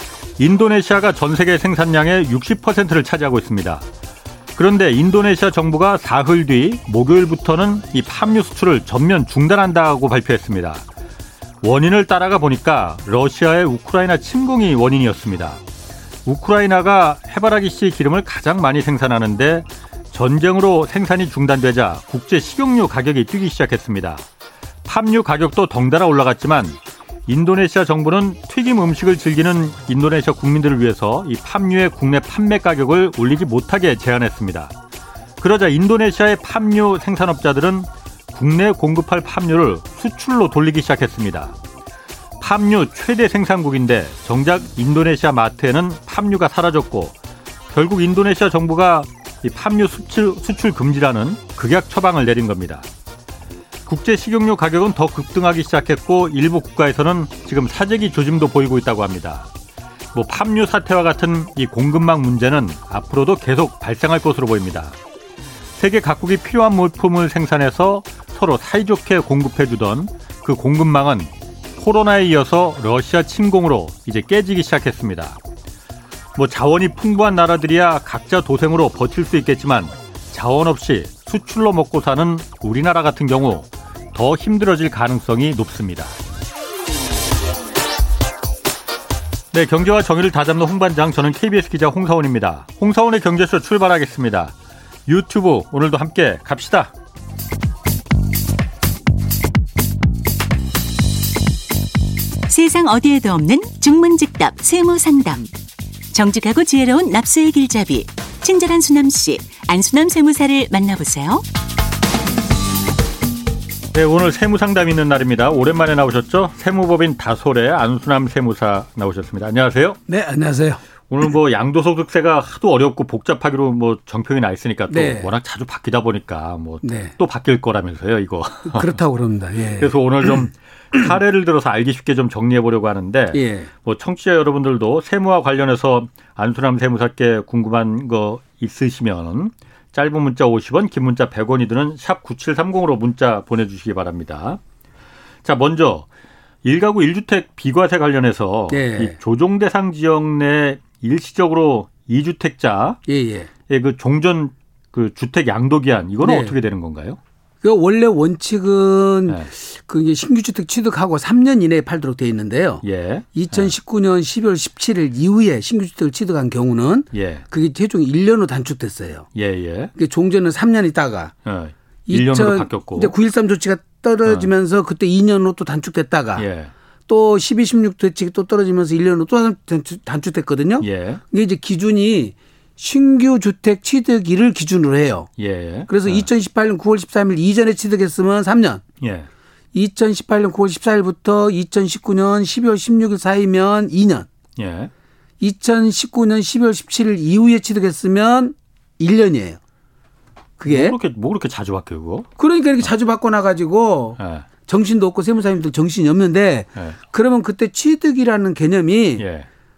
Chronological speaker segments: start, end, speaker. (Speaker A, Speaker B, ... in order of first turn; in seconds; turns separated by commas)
Speaker A: 0.4-3.9, Speaker A: 4.5-10.8, Speaker A: 11.6-15.6, Speaker A: 16.2-24.2, Speaker A: 24.8-34.7, Speaker A: 35.4-41.6, Speaker A: 42.4-47.1, Speaker A: 47.7-52.9, Speaker A: 53.9-59.5, Speaker A: 60.1-65.0, Speaker A: 65.7-75.4, Speaker A: 76.3-86.2, Speaker A: 89.5-94.5, Speaker A: 95.0-96.9, Speaker B: 102.5-105.5, Speaker B: 106.1-111.4, Speaker A: 113.9-120.0, Speaker C: 120.1-120.8, Speaker A: 121.1-129.0, Speaker C: 124.9-125.3, Speaker C: 126.8-127.2, Speaker C: 128.7-129.9, Speaker A: 129.7-144.6, Speaker C: 133.3-133.7, Speaker A: 145.4-146.1, Speaker A: 146.6-153.0, Speaker C: 148.7-149.2, Speaker C: 153.1-153.5, Speaker A: 153.7-157.2, Speaker C: 156.2-156.6, Speaker C: 157.6-162.8, Speaker A: 162.8-163.7, Speaker C: 163.3-169.3, Speaker A: 167.1-167.4, Speaker A: 169.3-169.9, Speaker C: 169.9-171.3, Speaker A: 171.4-173.1, Speaker C: 172.1-176.4, Speaker A: 174.2-174.5, Speaker A: 176.3-176.7, Speaker C: 177.1-185.3, Speaker A: 180.8-181.2, Speaker A: 185.4-186.2, Speaker C: 185.9-188.8, Speaker A: 189.0-189.3, Speaker C: 189.7-194.3, Speaker A: 194.6-194.9, Speaker C: 195.4-199.6, Speaker C: 200.6-200.9, Speaker A: 200.7-202.3, Speaker C: 202.4-209.2, Speaker A: 204.2-204.5, Speaker A: 209.2-209.5